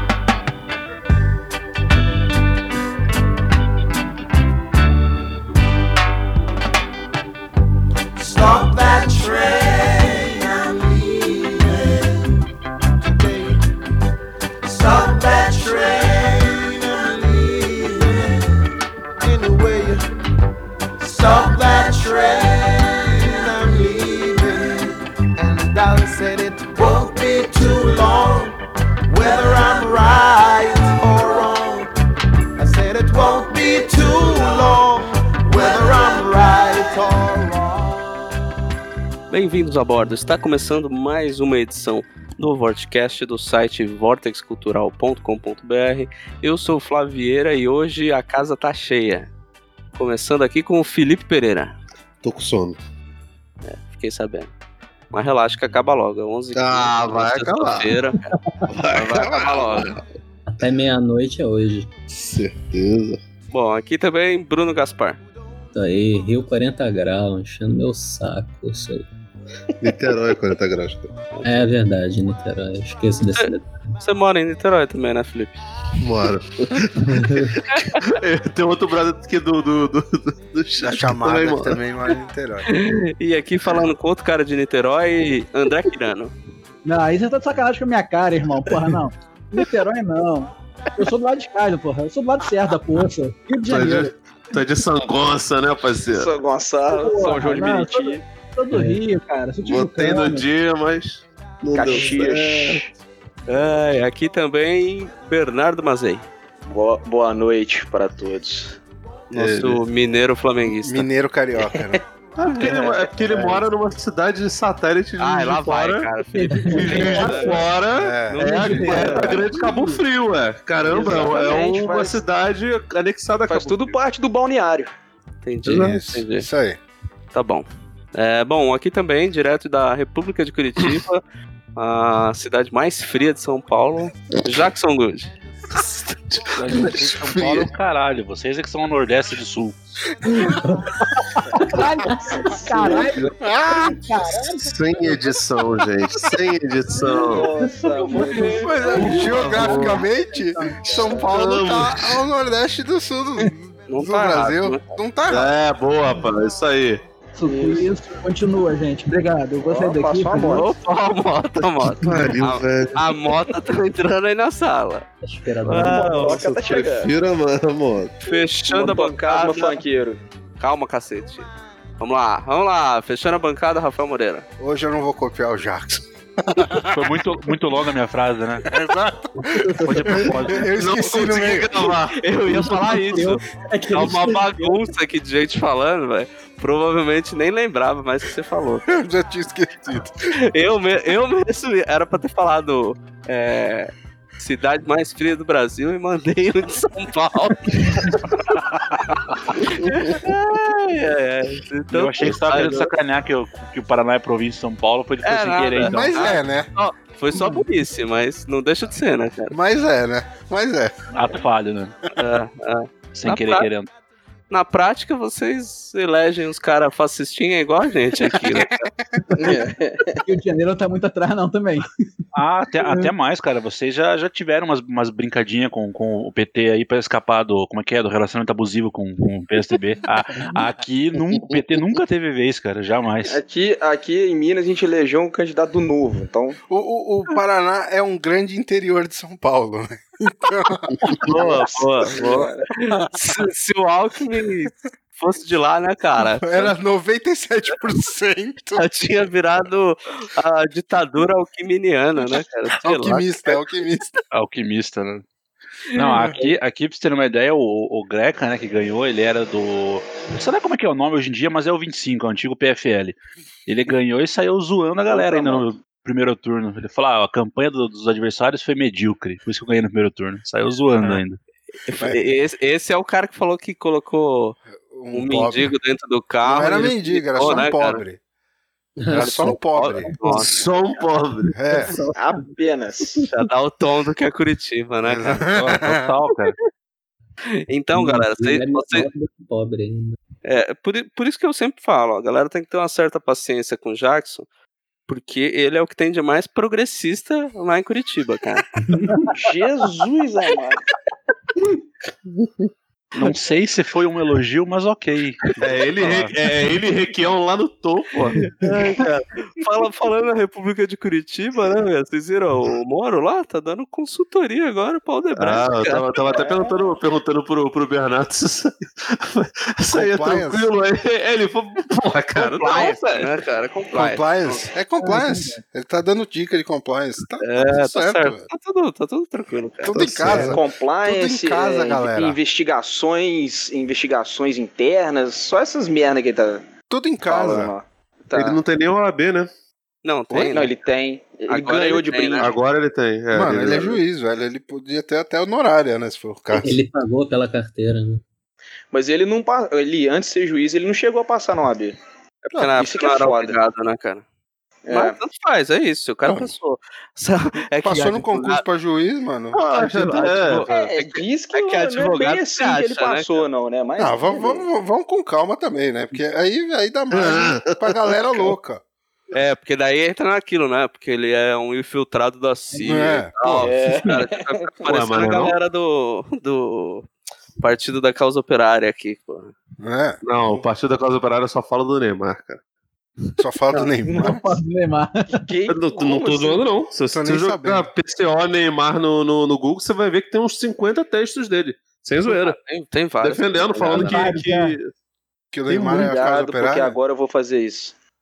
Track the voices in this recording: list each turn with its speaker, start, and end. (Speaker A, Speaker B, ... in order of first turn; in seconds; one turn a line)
Speaker A: 8.2-12.2
Speaker A: 13.0-13.6
Speaker A: 14.6-18.5
Speaker A: 19.2-20.1
Speaker A: 21.0-31.9
Speaker A: 32.6-38.2
Speaker B: 39.3-49.3
Speaker B: 49.9-51.7
Speaker C: 52.2-52.8
Speaker B: 53.6-54.5
Speaker B: 55.1-58.3
Speaker C: 56.5-58.0
Speaker C: 58.7-60.0
Speaker B: 58.9-60.0
Speaker D: 59.1-59.8
Speaker E: 60.5-61.9
Speaker C: 62.1-63.2
Speaker B: 63.5-65.2
Speaker E: 65.7-69.1
Speaker C: 69.8-71.1
Speaker B: 71.3-71.7
Speaker E: 71.4-73.7
Speaker B: 73.3-75.5
Speaker C: 76.0-81.8
Speaker E: 77.0-77.5
Speaker B: 77.6-78.2
Speaker D: 80.8-82.7
Speaker B: 82.7-86.3
Speaker F: 86.8-94.1
Speaker C: 93.6-96.3
Speaker G: 96.1-98.2
Speaker F: 96.9-100.5
Speaker E: 98.7-99.0
Speaker C: 99.6-102.8
Speaker G: 101.7-102.9
Speaker B: 103.5-106.2
Speaker G: 106.7-108.8
Speaker B: 109.3-111.1
Speaker D: 109.3-109.8
Speaker D: 110.8-112.0
Speaker G: 111.5-111.9
Speaker C: 112.4-116.1
Speaker B: 112.5-113.6
Speaker B: 115.2-117.7
Speaker F: 116.3-117.7
Speaker C: 116.7-124.0
Speaker D: 116.9-117.3
Speaker D: 117.9-118.4
Speaker B: 118.3-119.5
Speaker F: 118.7-119.5
Speaker G: 118.8-119.4
Speaker G: 120.8-122.2
Speaker B: 120.9-121.3
Speaker G: 123.5-124.9
Speaker B: 125.4-126.5
Speaker C: 125.6-126.0
Speaker D: 125.7-126.8
Speaker B: 127.3-131.2
Speaker B: 131.8-136.2
Speaker C: 136.3-137.7
Speaker H: 136.6-139.8
Speaker F: 141.2-144.7
Speaker G: 142.3-144.6
Speaker D: 143.4-144.1
Speaker C: 144.6-147.6
Speaker G: 147.0-149.8
Speaker E: 147.6-148.2
Speaker C: 148.2-150.1
Speaker D: 148.6-155.5
Speaker F: 148.6-149.8
Speaker F: 150.4-150.8
Speaker G: 150.8-151.3
Speaker C: 150.9-152.2
Speaker B: 153.9-154.8
Speaker C: 155.3-157.0
Speaker F: 157.3-160.7
Speaker G: 157.4-157.9
Speaker G: 159.6-160.7
Speaker B: 160.4-165.1
Speaker C: 161.6-163.1
Speaker E: 165.2-166.4
Speaker C: 165.6-168.1
Speaker G: 165.7-167.1
Speaker B: 168.2-169.8
Speaker G: 168.7-170.2
Speaker B: 170.6-174.4
Speaker D: 174.6-177.1
Speaker H: 176.9-178.6
Speaker D: 178.7-181.9
Speaker E: 179.8-180.0
Speaker H: 179.8-181.0
Speaker C: 180.7-183.0
Speaker B: 182.1-183.4
Speaker E: 182.5-184.8
Speaker C: 183.9-184.3
Speaker B: 184.0-188.9
Speaker D: 188.9-190.2
Speaker B: 190.5-203.0
Speaker H: 201.9-206.2
Speaker B: 205.2-209.6
Speaker D: 205.8-206.7
Speaker D: 209.5-211.0
Speaker H: 211.1-211.9
Speaker B: 212.2-213.7
Speaker H: 213.1-213.9
Speaker B: 214.5-218.9
Speaker G: 219.3-220.3
Speaker F: 220.2-221.9
Speaker H: 222.3-233.4
Speaker G: 233.3-236.6
Speaker D: 236.7-240.9
Speaker C: 240.9-242.5
Speaker B: 241.3-246.7
Speaker G: 241.3-242.7
Speaker D: 246.4-248.8
Speaker B: 248.7-253.6
Speaker D: 252.8-254.1
Speaker H: 254.3-255.2
Speaker H: 255.9-271.4
Speaker B: 256.0-256.4
Speaker G: 265.1-265.6
Speaker B: 271.8-274.6
Speaker D: 274.9-275.7
Speaker B: 275.1-278.0
Speaker D: 276.4-278.2
Speaker E: 279.0-280.4
Speaker D: 279.1-280.1
Speaker B: 279.1-280.6
Speaker C: 280.3-281.5
Speaker E: 281.5-282.5
Speaker D: 281.6-281.9
Speaker G: 282.1-283.2
Speaker B: 283.3-285.4
Speaker D: 285.0-286.1
Speaker H: 285.5-286.6
Speaker B: 287.7-289.1
Speaker E: 287.9-290.2
Speaker B: 290.4-294.4
Speaker B: 295.1-298.6
Speaker E: 298.9-299.3
Speaker G: 299.3-300.8
Speaker H: 303.1-306.3
Speaker C: 305.6-309.3
Speaker B: 309.5-316.5
Speaker C: 315.4-323.4
Speaker G: 316.4-316.8
Speaker D: 319.9-320.7
Speaker D: 322.3-322.9
Speaker B: 322.6-324.7
Speaker D: 323.9-328.5
Speaker B: 327.4-330.5
Speaker D: 329.8-332.4
Speaker C: 330.0-330.4
Speaker G: 330.3-336.6
Speaker D: 336.9-337.7
Speaker G: 337.2-338.6
Speaker C: 338.3-339.5
Speaker B: 340.0-340.7
Speaker G: 340.3-342.5
Speaker B: 341.5-342.5
Speaker C: 342.4-344.0
Speaker D: 343.3-346.7
Speaker E: 346.5-348.2
Speaker G: 348.9-351.9
Speaker B: 352.4-354.2
Speaker G: 352.6-353.6
Speaker G: 354.9-355.2
Speaker B: 354.9-358.6
Speaker D: 356.2-356.5
Speaker D: 357.8-359.6
Speaker C: 359.5-360.9
Speaker B: 359.7-363.4
Speaker G: 360.7-364.7
Speaker D: 364.0-368.8
Speaker C: 367.1-368.5
Speaker B: 369.3-377.1
Speaker D: 372.7-373.7
Speaker G: 373.6-374.7
Speaker C: 374.9-375.6
Speaker B: 377.6-379.5
Speaker D: 379.8-380.2
Speaker C: 380.2-382.6
Speaker D: 383.4-384.5
Speaker F: 384.1-385.4
Speaker G: 385.3-386.6
Speaker C: 385.7-392.6
Speaker D: 387.1-387.9
Speaker B: 392.2-394.3
Speaker C: 393.2-394.9
Speaker F: 393.9-394.8
Speaker D: 395.5-397.0
Speaker F: 395.7-396.0
Speaker G: 395.8-397.9